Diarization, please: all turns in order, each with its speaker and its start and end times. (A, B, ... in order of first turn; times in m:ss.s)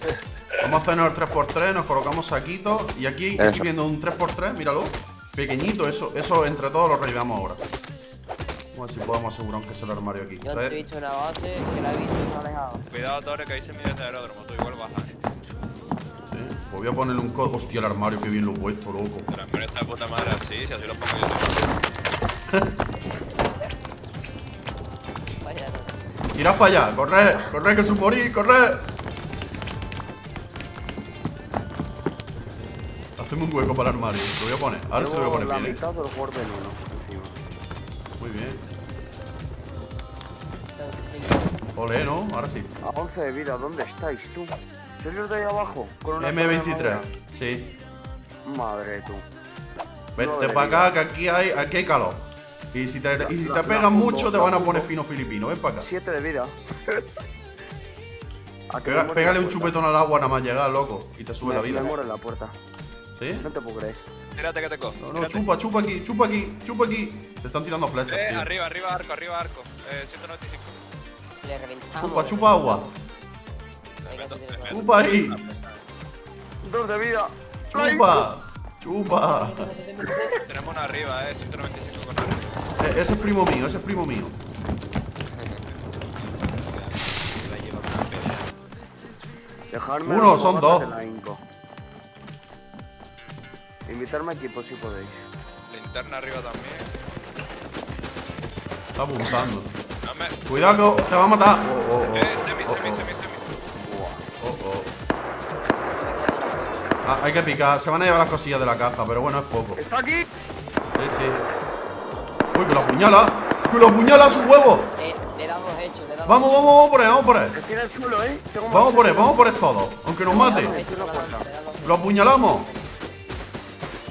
0:00.6-0:07.6 A
0:08.7-0:10.8 A
0:10.4-0:12.8 B
0:12.9-0:15.1 C
0:16.3-0:19.3 A
0:19.3-0:21.7 C
0:25.4-0:26.0 B
0:26.4-0:28.8 A
0:33.2-0:35.8 A
0:35.0-0:37.4 D
0:38.2-0:38.6 A
0:40.8-0:41.6 B
0:41.8-0:42.7 A
0:42.8-0:47.1 D
0:46.2-0:47.7 A
0:48.5-0:49.2 D
0:50.2-0:51.0 D
0:50.2-0:55.9 A
0:53.2-0:54.9 D
0:55.8-0:57.0 D
0:58.7-0:59.8 D
0:58.8-1:01.9 A
1:01.4-1:02.5 D
1:03.2-1:03.4 A
1:03.4-1:04.0 D
1:04.4-1:05.4 C
1:05.0-1:08.5 A
1:08.1-1:10.7 C
1:11.4-1:12.9 B
1:12.0-1:12.9 A
1:14.0-1:15.8 C
1:14.0-1:14.8 B
1:14.7-1:15.4 A
1:16.6-1:18.3 D
1:17.7-1:19.7 A
1:19.0-1:20.4 B
1:20.4-1:22.6 C
1:22.8-1:24.4 A
1:26.6-1:28.5 C
1:29.7-1:31.4 D
1:30.0-1:30.9 A
1:33.9-1:35.2 D
1:35.7-1:36.9 C
1:39.0-1:39.7 A
1:40.0-1:40.4 C
1:40.5-1:43.0 A
1:42.1-1:43.4 C
1:43.8-1:44.2 D
1:44.4-1:44.9 A
1:45.9-1:47.0 B
1:47.0-1:49.8 A
1:49.8-1:50.3 D
1:51.0-1:51.4 A
1:52.5-1:54.9 A
1:52.6-1:53.1 B
1:54.3-1:56.6 B
1:56.2-1:57.6 A
1:57.5-1:59.4 D
1:58.7-2:00.8 A
2:00.3-2:01.5 D
2:00.3-2:02.9 B
2:01.8-2:02.7 A